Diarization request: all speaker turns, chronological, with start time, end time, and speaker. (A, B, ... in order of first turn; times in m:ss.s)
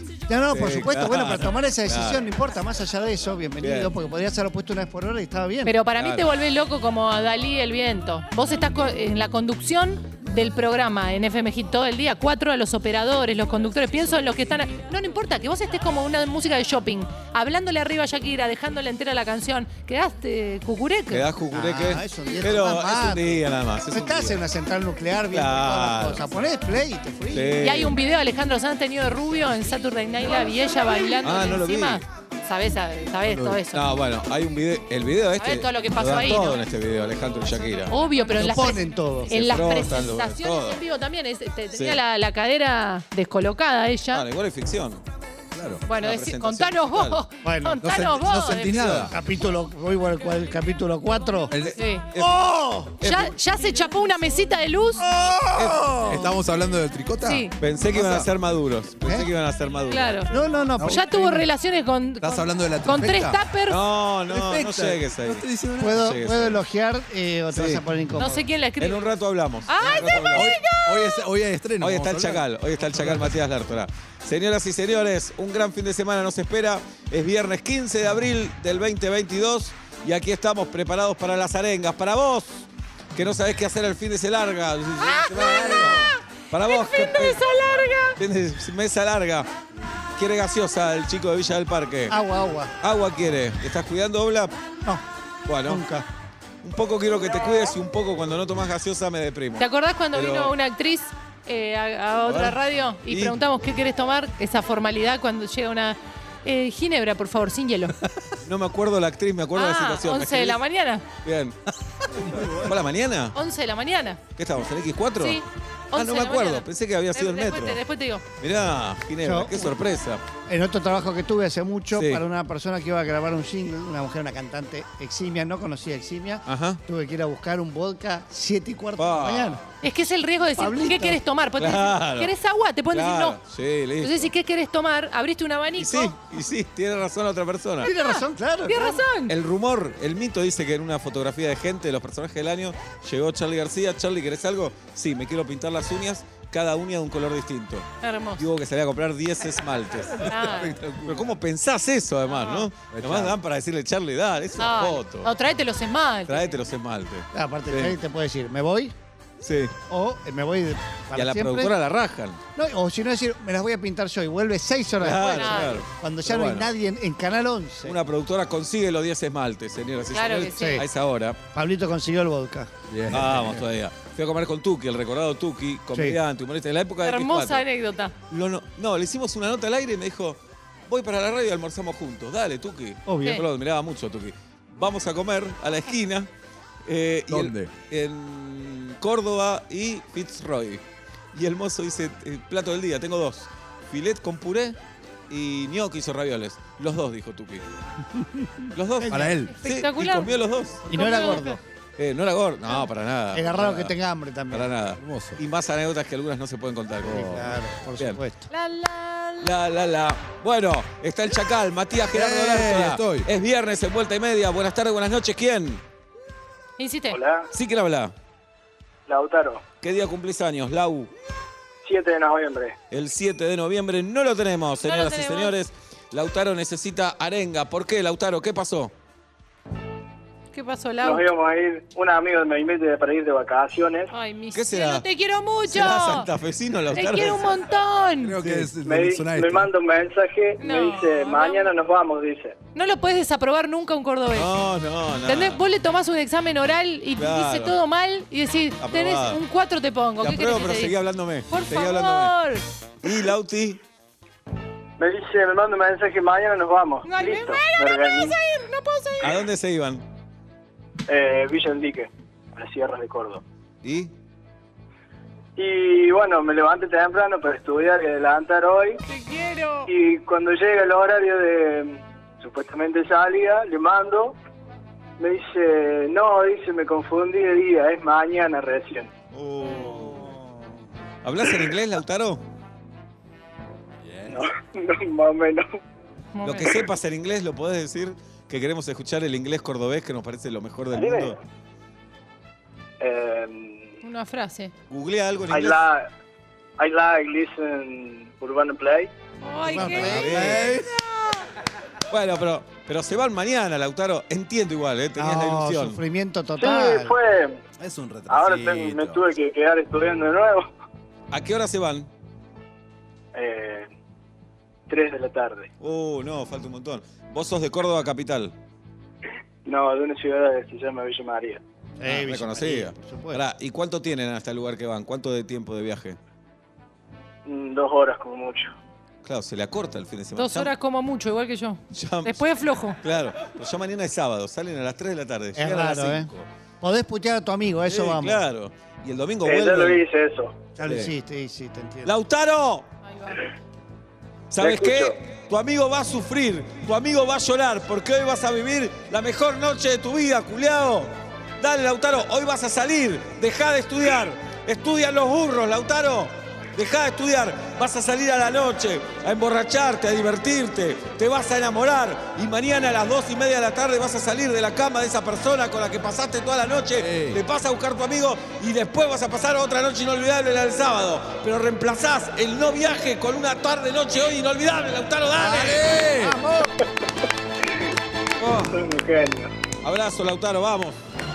0:00.3-0:05.7 A
0:00.5-0:02.2 B
0:03.6-0:03.9 B
0:05.6-0:21.2 C
0:06.0-0:06.3 B
0:21.1-0:24.4 B
0:21.5-0:27.7 A
0:25.3-0:26.2 B
0:27.3-0:27.9 B
0:27.6-0:33.8 C
0:31.2-0:32.0 B
0:33.3-0:33.6 D
0:33.7-0:38.0 B
0:35.4-0:36.6 C
0:37.9-0:44.2 C
0:38.3-0:39.3 A
0:39.3-0:40.8 B
0:41.8-0:42.0 B
0:44.1-0:45.0 B
0:45.5-0:45.8 D
0:45.9-0:49.0 C
0:46.0-0:47.2 B
0:47.4-0:47.8 A
0:47.8-0:49.1 D
0:48.8-0:49.1 B
0:49.1-0:51.5 A
0:51.5-0:51.8 D
0:51.6-0:53.4 B
0:51.8-0:52.1 C
0:52.2-0:52.9 A
0:53.0-0:55.0 C
0:55.0-0:57.5 D
0:55.6-0:55.9 B
0:57.2-0:57.5 C
0:57.6-1:00.2 B
0:57.9-0:58.3 A
0:59.0-0:59.3 A
0:59.9-1:00.3 C
1:00.3-1:01.5 A
1:00.8-1:01.0 D
1:00.8-1:03.8 C
1:02.2-1:03.4 D
1:03.7-1:05.4 B
1:04.3-1:06.2 D
1:05.8-1:08.4 A
1:06.0-1:06.6 B
1:07.5-1:07.8 B
1:08.2-1:09.1 C
1:08.8-1:10.5 B
1:09.7-1:11.2 C
1:10.3-1:13.4 D
1:11.8-1:27.4 B
1:25.0-1:28.2 C
1:28.2-1:29.5 B
1:30.2-1:32.2 B
1:32.1-1:32.7 A
1:32.8-1:34.5 B
1:35.5-1:35.8 B
1:35.7-1:36.0 A
1:36.6-1:40.5 B
1:39.6-1:48.0 C
1:42.3-1:43.4 B
1:48.4-1:50.6 B
1:49.6-1:51.0 C
1:51.2-1:51.6 B
1:52.1-1:52.6 D
1:52.4-1:53.4 B
1:53.3-1:54.2 C
1:54.4-1:57.8 B
1:55.2-1:58.2 C
1:58.4-2:00.2 B
1:59.2-1:59.8 A
2:00.5-2:09.6 A
2:01.9-2:02.2 B
2:06.5-2:06.8 B
2:09.0-2:09.6 B
2:09.8-2:13.4 C
2:10.6-2:11.2 A
2:11.6-2:12.3 B
2:12.9-2:14.3 B
2:14.0-2:16.2 C
2:15.8-2:17.9 B
2:17.8-2:19.0 A
2:18.0-2:19.3 C
2:19.3-2:27.9 B
2:28.0-2:28.5 C
2:28.4-2:30.3 B
2:30.1-2:31.3 D
2:30.2-2:30.7 C
2:31.0-2:35.3 B
2:32.3-2:32.7 C
2:32.9-2:33.3 D
2:34.6-2:36.5 C
2:36.3-2:38.0 B
2:37.3-2:38.9 A
2:39.4-2:39.7 B
2:39.9-2:41.7 A
2:41.1-2:42.4 B
2:42.6-2:48.0 A
2:45.0-2:46.7 B
2:45.2-2:45.8 C
2:47.8-2:51.4 B
2:50.1-2:50.8 C
2:50.6-2:50.9 A
2:51.5-2:52.7 A
2:52.9-2:53.6 D
2:53.1-2:57.6 B
2:57.0-2:58.1 C
2:58.3-3:06.3 B
3:03.1-3:03.4 A
3:06.8-3:10.8 B
3:07.3-3:07.7 D
3:11.3-3:14.8 B
3:15.3-3:17.6 B
3:18.2-3:19.4 A
3:18.7-3:21.4 B
3:19.1-3:19.5 D
3:19.5-3:20.3 C
3:20.9-3:21.6 A
3:20.9-3:21.6 C
3:22.0-3:24.0 B
3:23.3-3:24.7 A
3:24.5-3:27.3 B
3:25.0-3:25.4 D
3:27.0-3:27.6 D
3:27.1-3:28.5 A
3:28.5-3:29.5 C
3:29.4-3:35.8 B
3:32.1-3:33.3 D
3:36.8-3:37.2 C
3:37.1-3:37.5 E
3:37.5-3:38.1 B
3:39.1-3:39.6 E
3:39.8-3:41.1 B
3:41.8-3:42.8 E
3:42.9-3:48.9 B
3:44.8-3:45.5 C
3:50.5-3:51.2 C
3:51.0-3:54.1 E
3:54.1-3:56.3 C
3:54.5-3:55.1 B
3:55.7-3:57.6 B
3:56.9-3:58.4 C
3:58.2-3:59.7 D
3:58.4-3:58.7 B
3:58.8-4:02.6 E
4:00.6-4:01.7 C
4:02.8-4:04.5 C
4:04.3-4:05.6 B
4:05.3-4:11.0 C
4:07.2-4:07.8 B
4:08.8-4:09.4 B
4:10.2-4:12.3 B
4:11.5-4:12.6 C
4:13.0-4:13.8 B
4:15.0-4:18.4 E
4:17.0-4:19.4 C
4:19.2-4:20.0 B
4:21.1-4:23.4 E
4:23.8-4:24.1 B
4:25.6-4:29.0 E
4:29.0-4:29.9 C
4:29.9-4:34.4 E
4:35.2-4:39.1 E
4:39.3-4:40.3 B
4:39.8-4:40.3 A
4:41.2-4:42.4 B
4:44.0-4:44.4 D
4:44.3-4:45.6 E
4:46.4-4:46.9 C
4:46.4-4:51.4 B
4:50.9-4:51.3 E
4:53.0-4:54.0 E
4:54.0-4:54.7 C
4:54.9-4:55.8 B
4:55.5-4:56.1 E
4:56.8-4:59.1 E
4:59.4-5:00.3 C
4:59.7-5:00.6 A
4:59.7-5:00.9 D
4:59.9-5:00.7 B
5:00.9-5:01.4 C
5:02.1-5:06.0 B
5:05.2-5:07.2 A
5:06.6-5:07.6 E
5:07.8-5:09.2 D
5:08.3-5:10.7 E
5:11.3-5:12.1 B
5:13.3-5:13.9 E
5:14.9-5:15.7 E
5:15.8-5:18.5 B
5:19.6-5:21.6 E
5:22.0-5:23.4 A
5:22.0-5:26.2 B
5:27.5-5:28.7 E
5:29.2-5:30.7 B
5:30.4-5:33.0 C
5:31.9-5:32.5 B
5:33.0-5:36.5 B
5:35.6-5:36.3 A
5:36.8-5:38.4 A
5:37.9-5:40.0 B
5:39.4-5:40.6 E
5:40.8-5:42.1 A
5:40.8-5:41.1 B
5:42.0-5:42.9 B
5:43.0-5:43.5 C
5:44.5-6:15.9 B
5:44.7-5:45.0 E
6:07.0-6:07.4 D
6:15.4-6:16.4 D
6:16.2-6:16.7 A
6:18.4-6:18.8 B
6:18.7-6:19.5 E
6:19.8-6:21.0 B